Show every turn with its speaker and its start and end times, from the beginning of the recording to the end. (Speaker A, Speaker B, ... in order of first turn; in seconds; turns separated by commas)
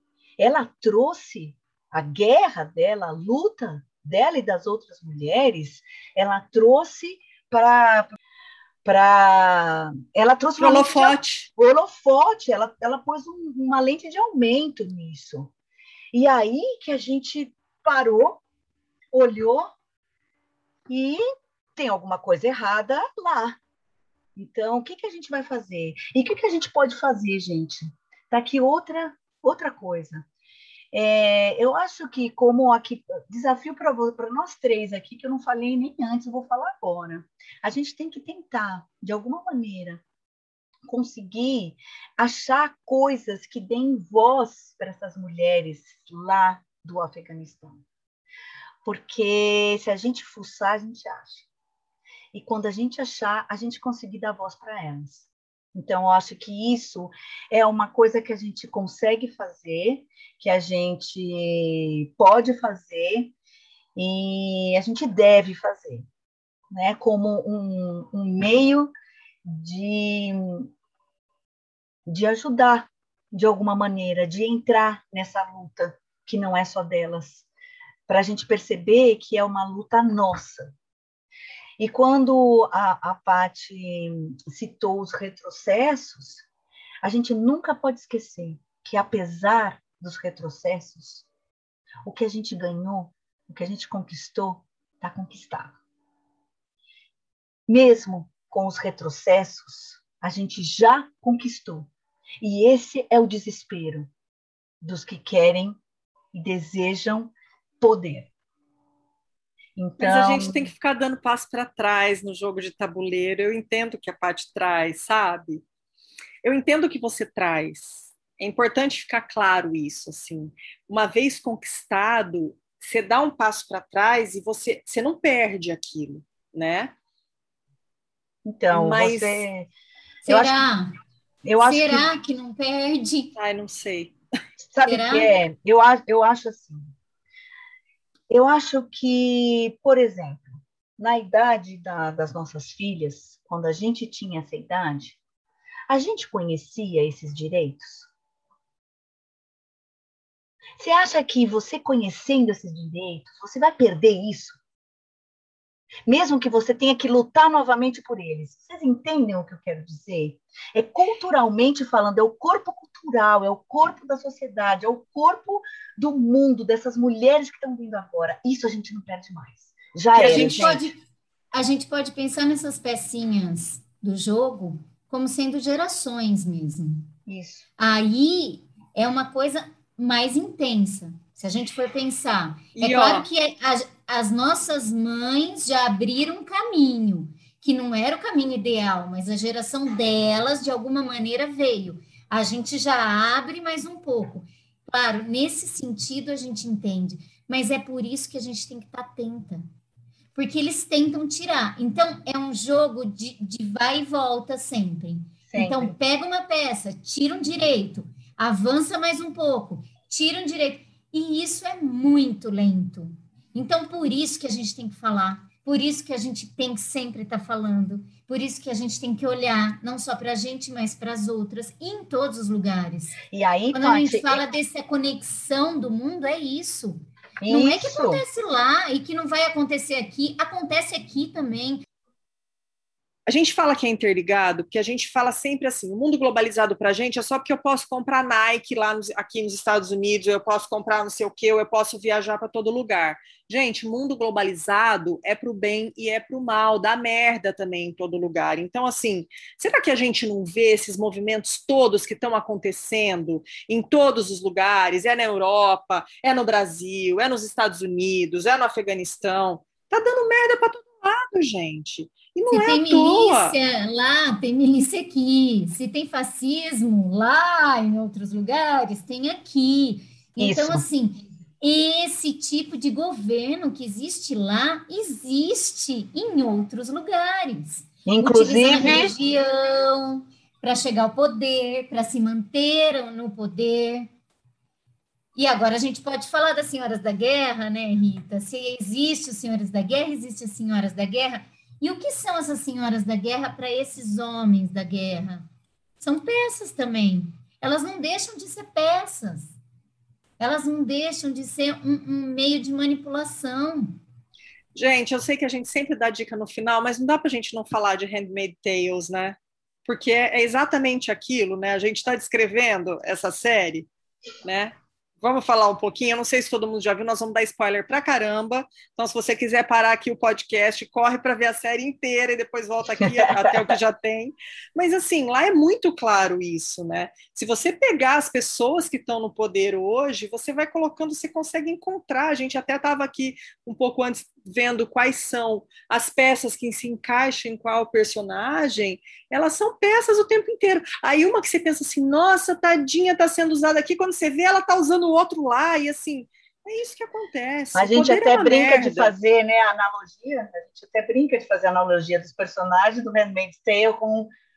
Speaker A: 0.4-8.1, Speaker A: 8.8-15.5, Speaker B: 10.6-11.5, Speaker A: 16.1-18.4, Speaker A: 19.1-19.7, Speaker A: 20.9-21.2, Speaker A: 21.8-23.6, Speaker A: 24.4-30.2, Speaker A: 30.9-40.0, Speaker A: 40.8-47.8, Speaker A: 48.8-51.4, Speaker A: 52.3-63.3, Speaker A: 64.0-66.0, Speaker A: 66.7-68.9, Speaker A: 69.4-70.7, Speaker A: 72.1-77.5, Speaker A: 78.1-80.7, Speaker A: 81.8-86.4, Speaker A: 87.0-91.3, Speaker A: 92.0-95.8, Speaker A: 97.7-101.9, Speaker A: 102.4-104.1, Speaker A: 104.8-105.8, Speaker A: 106.3-108.3, Speaker A: 109.8-110.7, Speaker B: 110.0-115.6, Speaker B: 116.4-126.9, Speaker A: 128.4-129.7, Speaker B: 128.7-129.5, Speaker C: 130.2-130.9, Speaker A: 130.3-130.6, Speaker A: 131.4-132.1, Speaker C: 131.6-133.3, Speaker B: 133.3-134.2, Speaker A: 134.6-136.8, Speaker C: 134.8-135.3, Speaker A: 138.3-145.2, Speaker A: 145.9-148.1, Speaker A: 150.8-154.6, Speaker A: 156.1-170.8, Speaker B: 170.1-170.9, Speaker C: 170.3-171.0, Speaker C: 171.5-177.1, Speaker A: 177.3-177.7, Speaker C: 177.8-199.6, Speaker B: 182.7-183.3, Speaker C: 200.3-223.2, Speaker A: 205.5-205.9, Speaker A: 223.3-224.4, Speaker C: 223.7-231.8, Speaker A: 227.4-228.2, Speaker B: 233.2-263.6, Speaker C: 262.5-284.1, Speaker A: 270.4-270.8, Speaker A: 278.1-279.1, Speaker C: 285.4-295.4, Speaker C: 296.0-299.6, Speaker C: 300.4-304.0, Speaker B: 304.7-313.9, Speaker B: 314.4-349.1, Speaker A: 323.0-323.6, Speaker A: 347.7-354.3